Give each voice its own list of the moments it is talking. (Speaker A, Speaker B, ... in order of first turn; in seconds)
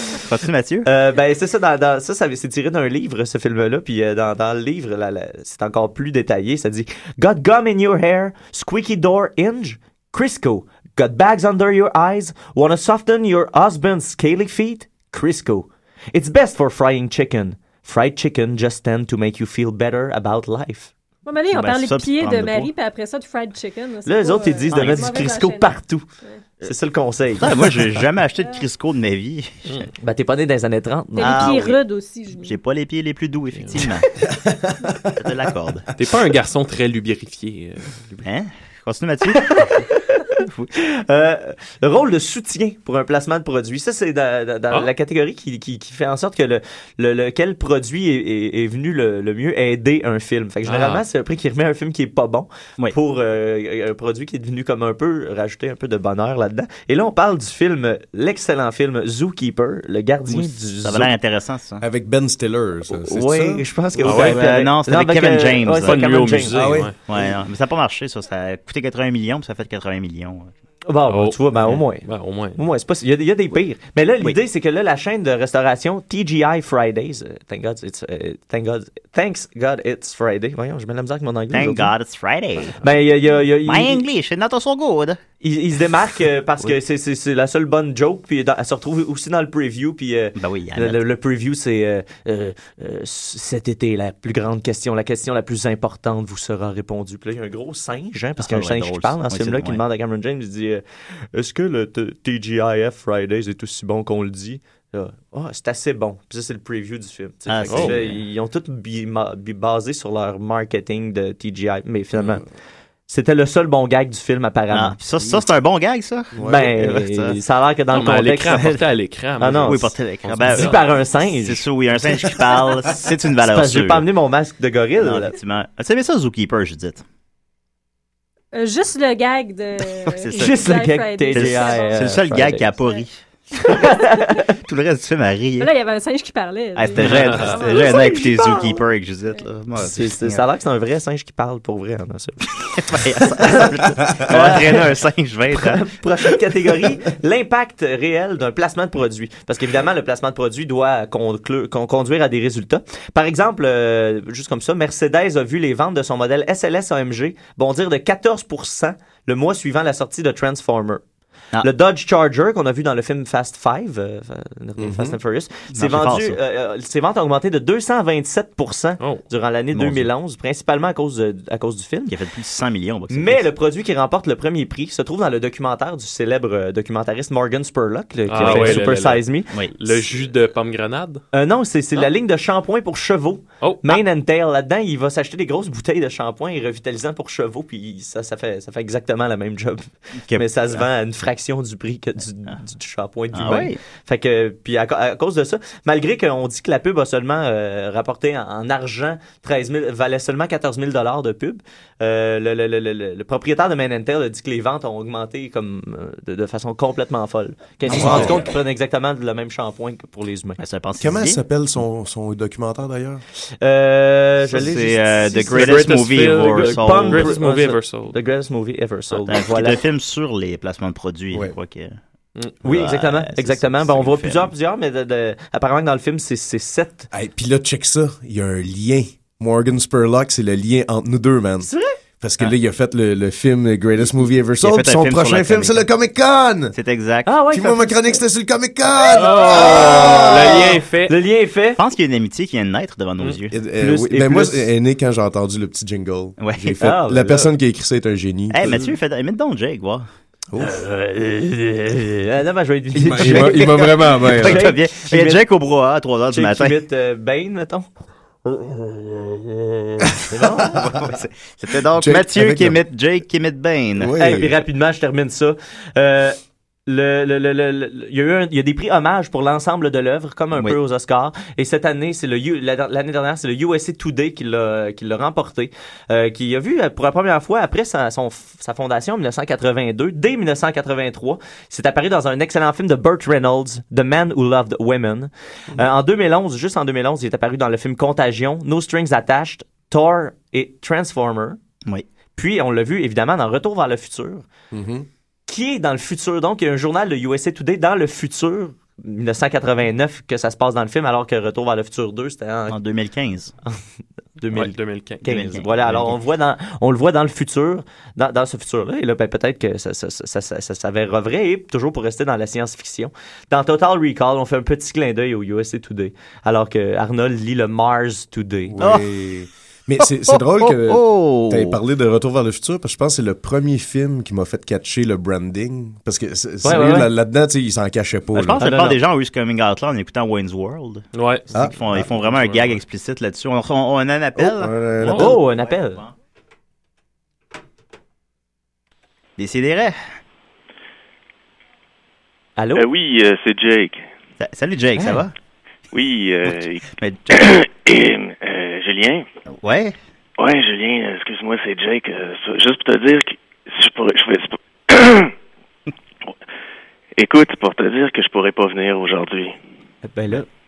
Speaker A: 0.2-0.9, 21.5-22.7, 24.7-25.3, 27.4-29.9, 31.2-31.8, 32.4-34.1, 35.1-35.9, 38.2-39.7, 40.4-40.7, 60.3-61.8, 64.0-66.4, 67.1-70.5, 81.5-83.0, 83.5-85.2, 90.4-91.0, 98.4-99.8, 107.5-108.2, 114.7-117.4, 119.6-124.1, 125.0-127.0, 130.1-130.8, 131.3-133.2, 134.7-135.7, 136.8-140.5, 142.8-145.8, 165.7-166.4, 169.7-170.1, 172.1-173.5, 178.4-178.8, 190.3-190.9, 193.3-193.8, 207.9-208.5, 210.6-211.4, 214.5-217.4, 219.3-222.0, 222.6-224.5, 234.6-235.9, 236.7-237.4, 241.8-243.6, 246.4-246.9, 248.5-250.1, 253.1-256.8, 260.4-264.2, 302.7-303.5, 305.2-306.2, 318.8-319.1, 320.3-321.8, 328.3-336.1, 339.4-340.0, 344.4-345.3, 346.9-347.5, 349.6-349.9
Speaker B: 0.8-20.9, 24.1-26.1, 26.6-27.8, 30.0-31.6, 39.3-40.0, 40.8-61.1, 62.9-66.8, 70.9-81.9, 82.8-84.0, 85.4-112.5, 113.1-115.0, 116.4-118.8, 119.4-119.9, 120.5-121.7, 122.4-122.7, 123.4-125.3, 130.4-132.7, 133.7-134.6, 137.8-138.2, 139.8-145.0, 145.6-161.0, 161.6-172.2, 173.1-180.0, 181.3-210.6, 213.6-219.8, 222.6-227.1, 231.6-231.9, 237.3-238.2, 239.2-241.8, 243.8-244.6, 246.8-247.5, 250.6-255.4, 256.3-257.9, 260.3-261.0, 264.2-291.6, 292.4-294.5, 295.5-302.8, 304.4-318.8, 326.6-327.1, 328.6-329.0, 335.1-336.0, 342.6-342.9, 360.1-360.5
Speaker C: 21.2-26.5, 31.1-32.6, 128.5-133.0, 133.7-134.0, 135.6-138.7
Speaker D: 33.5-33.9, 36.0-38.2, 50.6-51.0, 64.0-64.6, 65.8-67.0, 71.1-72.6, 107.7-108.1, 117.9-120.8, 136.9-137.6, 178.3-181.2, 183.6-184.0, 215.5-218.2, 239.1-241.2, 304.5-305.2, 331.1-331.5, 332.1-332.8, 335.0-335.3
Speaker E: 34.4-35.1, 61.8-63.6, 66.5-67.2, 116.3-116.7, 164.8-165.2, 207.9-208.4, 211.0-213.2, 227.1-236.8, 237.5-240.6, 243.5-248.9, 250.5-250.8, 253.0-254.7, 261.9-262.8, 264.0-264.6, 294.7-295.1, 318.7-328.8, 331.5-332.1, 334.4-335.4
Speaker F: 342.8-344.0, 345.9-349.2, 350.4-355.3, 357.2-359.6